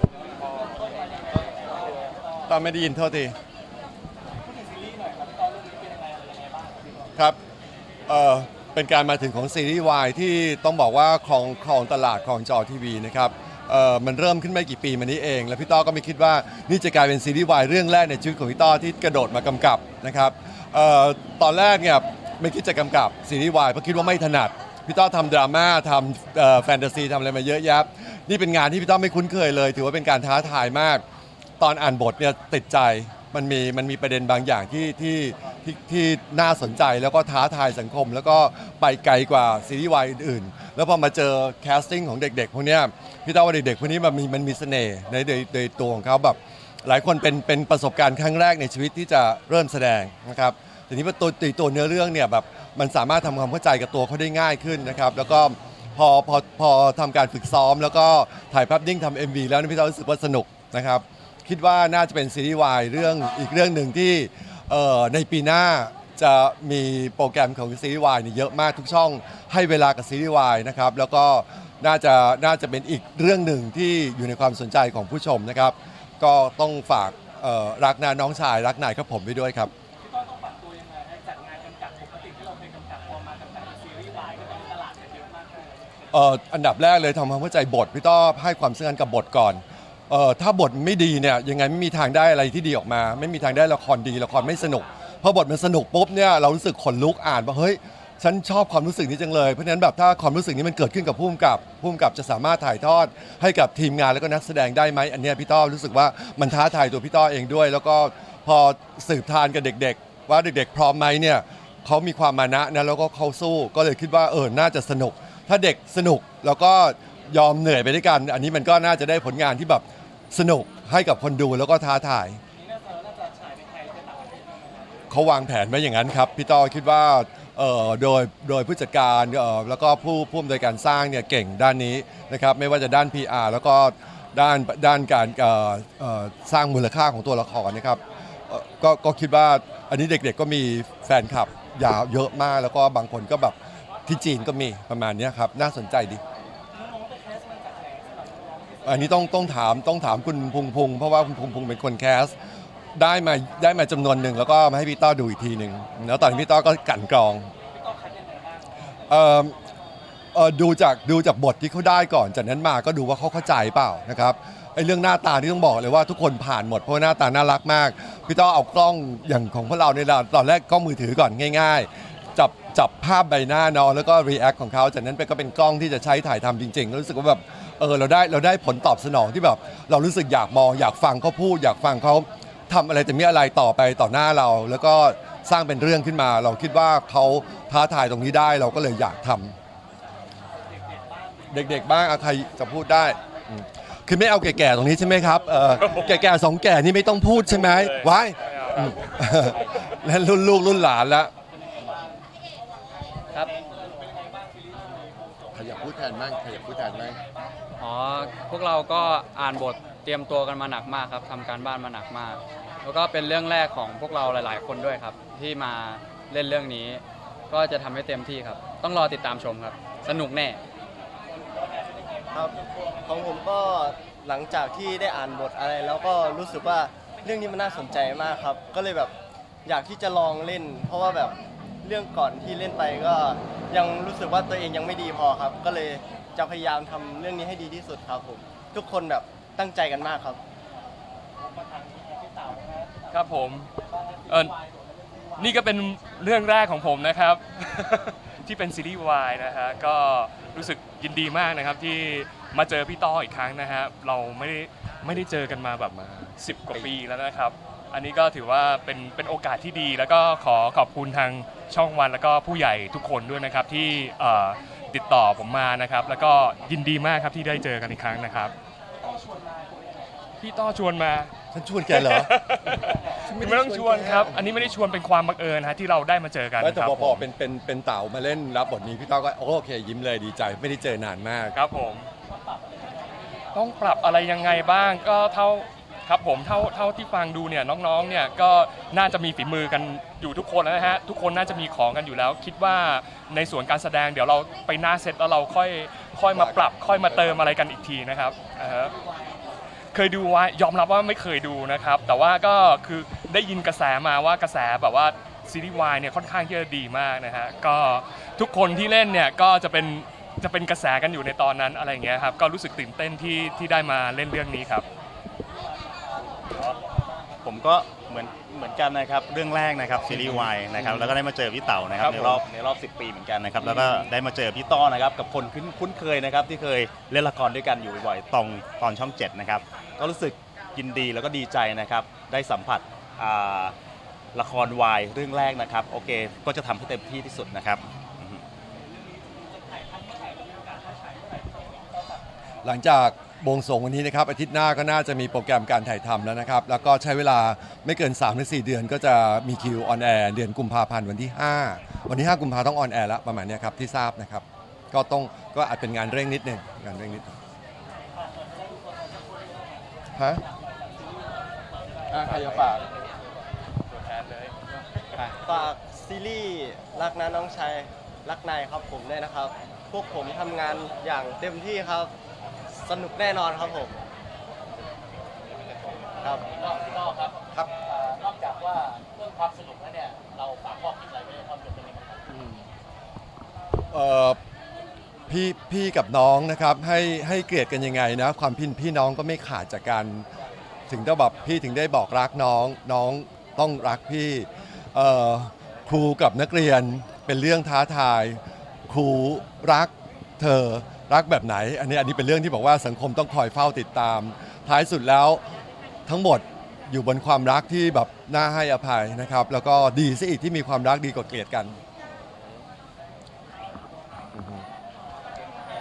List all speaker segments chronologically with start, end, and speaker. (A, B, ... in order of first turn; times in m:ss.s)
0:02.5-0:03.4 A
0:04.8-0:06.8 B
0:08.1-0:31.0 A
0:31.6-1:19.7 A
1:20.1-1:25.7 B
1:26.1-2:02.4 A
2:02.8-2:04.4 B
2:05.1-2:26.2 A
2:26.8-2:28.5 B
2:28.8-2:32.4 A
2:32.9-2:37.5 A
2:37.8-2:38.6 B
2:39.1-2:39.6 A
2:40.3-3:09.6 A
3:11.5-3:21.3 A
3:15.8-3:16.2 C
3:17.5-3:19.8 C
3:24.2-3:24.6 B
3:25.6-3:27.2 B
3:25.8-3:26.7 A
3:27.8-3:40.6 D
3:42.3-3:49.1 E
3:49.6-4:00.4 E
4:01.8-4:03.0 B
4:03.1-4:03.7 C
4:04.3-4:04.6 C
4:05.4-4:28.5 C
4:15.1-4:16.9 A
4:29.1-4:29.6 B
4:30.4-4:31.3 C
4:31.5-4:34.7 A
4:31.9-4:37.3 C
4:36.6-4:41.6 A
4:41.5-4:42.1 C
4:43.5-4:59.0 C
4:56.3-4:57.7 A
4:59.9-5:14.9 C
5:16.5-5:16.8 F
5:17.4-5:33.8 F
5:20.1-5:21.2 C
5:21.9-5:22.5 C
5:23.6-5:24.1 C
5:34.3-5:38.4 F
5:39.7-5:41.6 B
5:42.6-5:57.4 A
6:00.2-6:00.4 A
6:02.2-6:02.6 C
6:02.3-6:02.8 B
6:03.9-6:04.6 C
6:05.4-6:12.1 E
6:12.7-6:14.0 E
6:16.2-6:16.6 E
6:23.9-6:24.4 A
6:25.3-6:30.3 A
6:30.9-6:45.4 A
6:46.1-6:51.8 A
6:54.4-6:54.7 A